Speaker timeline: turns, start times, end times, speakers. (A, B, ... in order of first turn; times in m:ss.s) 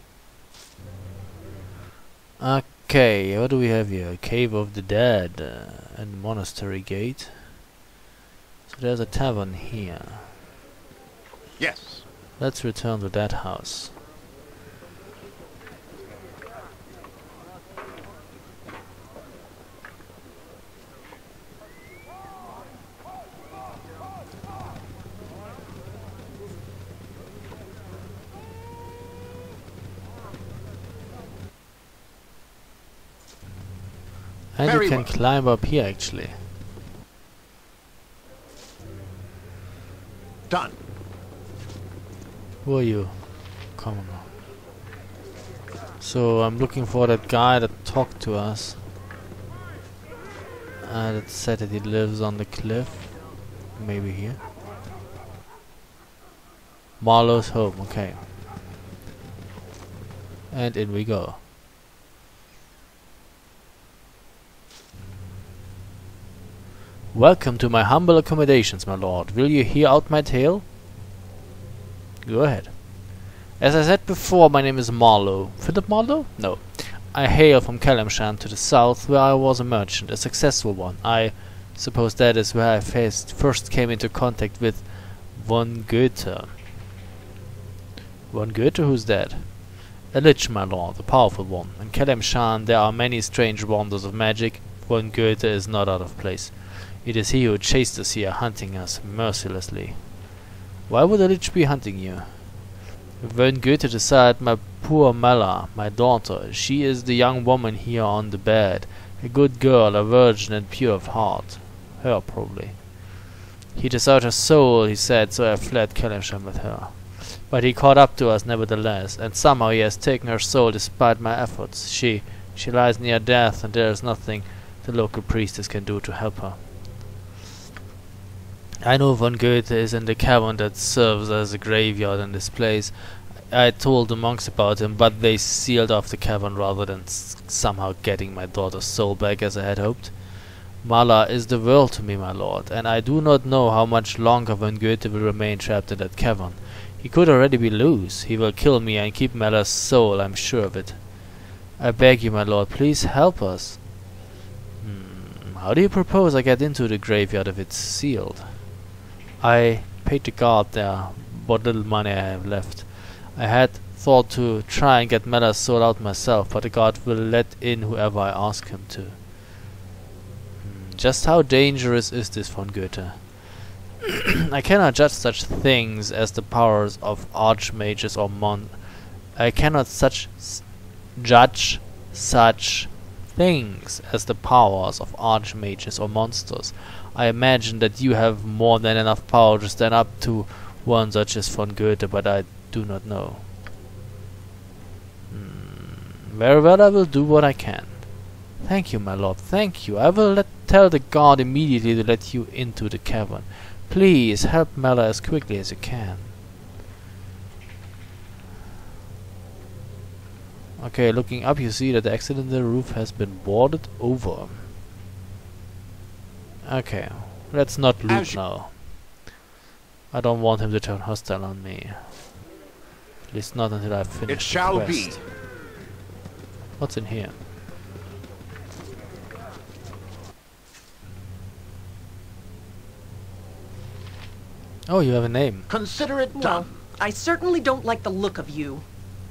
0:02.4-0:07.6 A
0:08.7-0:10.3 A
0:11.6-0:12.1 B
0:12.4-0:14.0 A
0:34.5-0:36.4 A
0:34.6-0:35.2 B
0:40.5-0:40.8 B
0:42.6-0:44.3 A
0:46.0-0:48.8 A
0:50.8-0:54.4 A
0:57.0-0:58.2 A
1:00.5-1:01.4 A
1:07.1-1:10.7 A
1:12.2-1:26.6 A
1:28.3-1:40.3 A
1:40.9-1:53.0 A
1:53.8-2:06.7 A
2:08.8-2:34.0 A
2:34.8-2:38.8 A
2:39.4-2:49.2 A
2:50.6-2:53.6 A
2:54.5-3:13.5 A
3:15.3-3:26.3 A
3:30.8-3:34.7 A
3:36.6-3:38.8 A
3:38.1-3:38.4 B
3:40.1-3:42.3 A
3:43.3-3:45.2 A
3:44.3-3:45.3 B
3:46.8-3:47.4 A
3:54.9-3:55.7 A
3:55.7-3:56.7 B
3:56.3-3:58.8 C